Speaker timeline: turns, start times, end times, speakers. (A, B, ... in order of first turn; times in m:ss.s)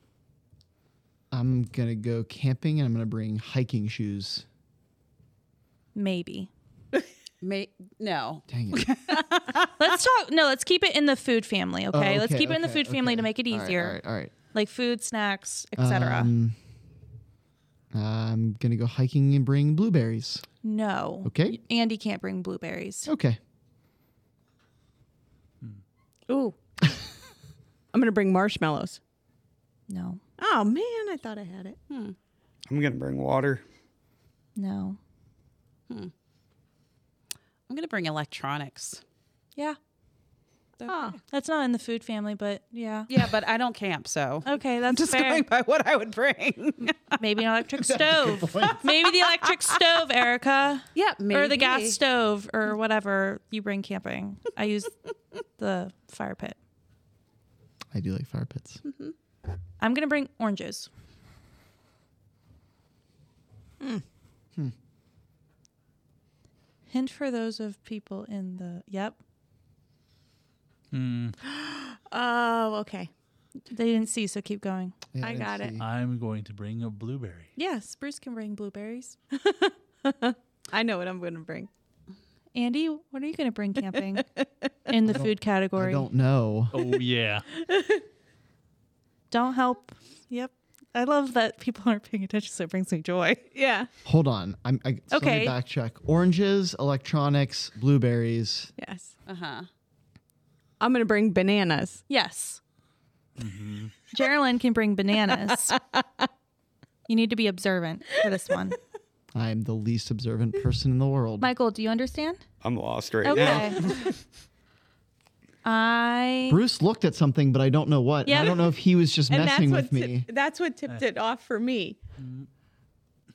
0:01.3-0:04.4 A
0:05.9-0:06.5 B
0:07.4-0:09.7 C
0:08.5-0:08.9 A
0:09.8-0:14.0 B
0:11.9-0:14.3 A
0:14.5-0:16.3 B
0:15.8-0:16.6 A
0:17.9-0:20.4 A
0:20.6-0:23.1 B
0:21.2-0:21.6 A
0:23.0-0:23.4 A
0:26.3-0:26.6 D
0:27.9-0:29.0 D
0:29.9-0:30.2 B
0:30.4-0:31.8 D
0:31.9-0:32.2 C
0:32.7-0:33.6 E
0:34.6-0:35.0 B
0:37.7-0:39.0 C
0:40.8-0:41.2 C
0:40.9-0:41.2 D
0:41.3-0:43.1 B
0:43.1-0:47.2 C
0:44.4-0:45.4 B
0:46.8-0:54.9 B
0:47.8-0:48.9 A
0:50.9-0:52.0 C
0:55.6-0:56.6 B
0:57.9-0:58.8 A
0:59.8-1:00.9 B
1:06.9-1:09.2 B
1:10.9-1:11.4 F
1:11.4-1:13.1 D
1:13.7-1:14.9 B
1:15.1-1:15.8 A
1:15.2-1:15.8 D
1:15.8-1:17.5 F
1:17.6-1:19.2 B
1:19.3-1:21.7 D
1:22.5-1:24.2 B
1:24.9-1:26.1 B
1:25.0-1:26.7 A
1:26.7-1:27.4 F
1:27.5-1:28.0 D
1:29.3-1:33.4 B
1:33.5-1:33.9 D
1:34.0-1:38.7 A
1:35.1-1:35.5 B
1:38.8-1:39.2 D
1:39.3-1:39.7 C
1:40.8-1:42.0 D
1:42.1-1:42.6 B
1:43.4-1:44.0 F
1:44.1-1:45.8 B
1:45.8-1:46.0 D
1:47.1-1:48.8 B
1:49.3-1:51.5 A
1:51.4-1:52.4 B
1:52.6-1:53.9 E
1:53.2-1:53.9 B
1:53.3-1:54.0 D
1:55.6-1:56.6 B
1:56.5-2:00.3 A
1:58.2-1:58.7 B
1:59.3-2:02.0 D
2:02.2-2:02.5 F